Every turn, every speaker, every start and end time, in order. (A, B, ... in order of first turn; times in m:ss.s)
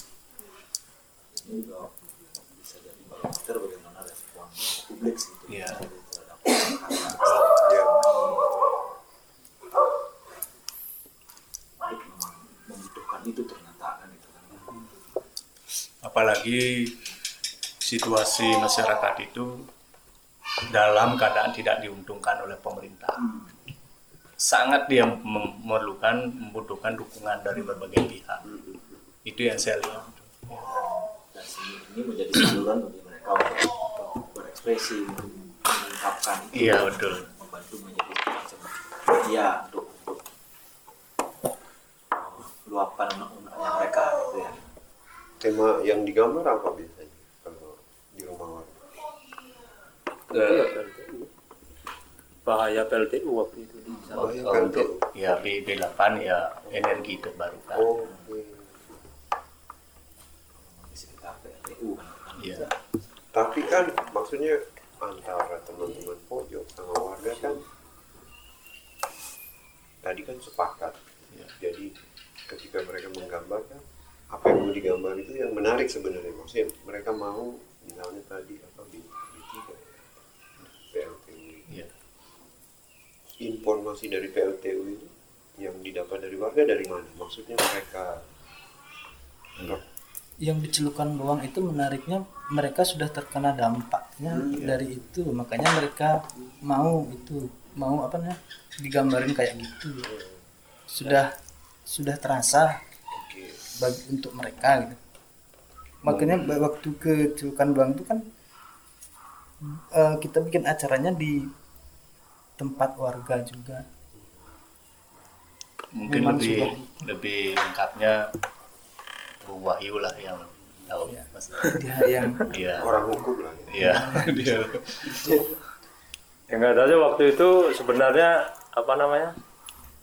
0:01.4-0:08.6 A
0:05.5-0:05.8 B
0:07.3-0:08.1 C
0:11.8-0:14.8 A
0:16.0-0:16.9 B
0:17.8-0:19.6 B
0:20.7-0:23.2 B
0:23.2-0:23.5 A
0:24.4-0:28.5 B
0:29.2-0:30.7 B
0:29.8-0:40.2 A
0:36.5-0:37.2 B
0:42.1-0:44.7 A
0:45.4-0:48.7 C
0:50.3-0:51.3 D
0:52.4-0:53.9 D
0:53.9-0:54.4 A
0:54.1-0:55.0 C
0:54.2-0:57.9 B
0:57.7-0:58.7 C
1:00.6-1:02.7 A
1:02.4-1:02.7 B
1:03.3-1:07.6 C
1:10.0-1:11.0 C
1:11.6-1:11.9 C
1:12.5-1:13.8 C
1:14.3-1:20.1 C
1:20.9-1:21.8 C
1:23.4-1:28.2 C
1:29.6-1:29.8 C
1:30.4-1:40.0 E
1:34.3-1:34.8 C
1:40.9-1:41.3 E
1:41.9-1:42.8 E
1:43.1-1:43.6 C
1:43.8-1:45.0 E
1:46.0-1:48.2 E
1:46.0-1:46.5 C
1:49.6-1:51.5 E
1:52.6-1:53.8 E
1:55.9-1:58.2 B
1:56.0-1:56.9 E
1:59.4-2:01.8 B
2:01.1-2:02.5 E
2:02.4-2:02.9 B
2:02.8-2:04.1 C
2:03.7-2:05.2 B
2:03.8-2:04.3 E
2:06.5-2:09.3 D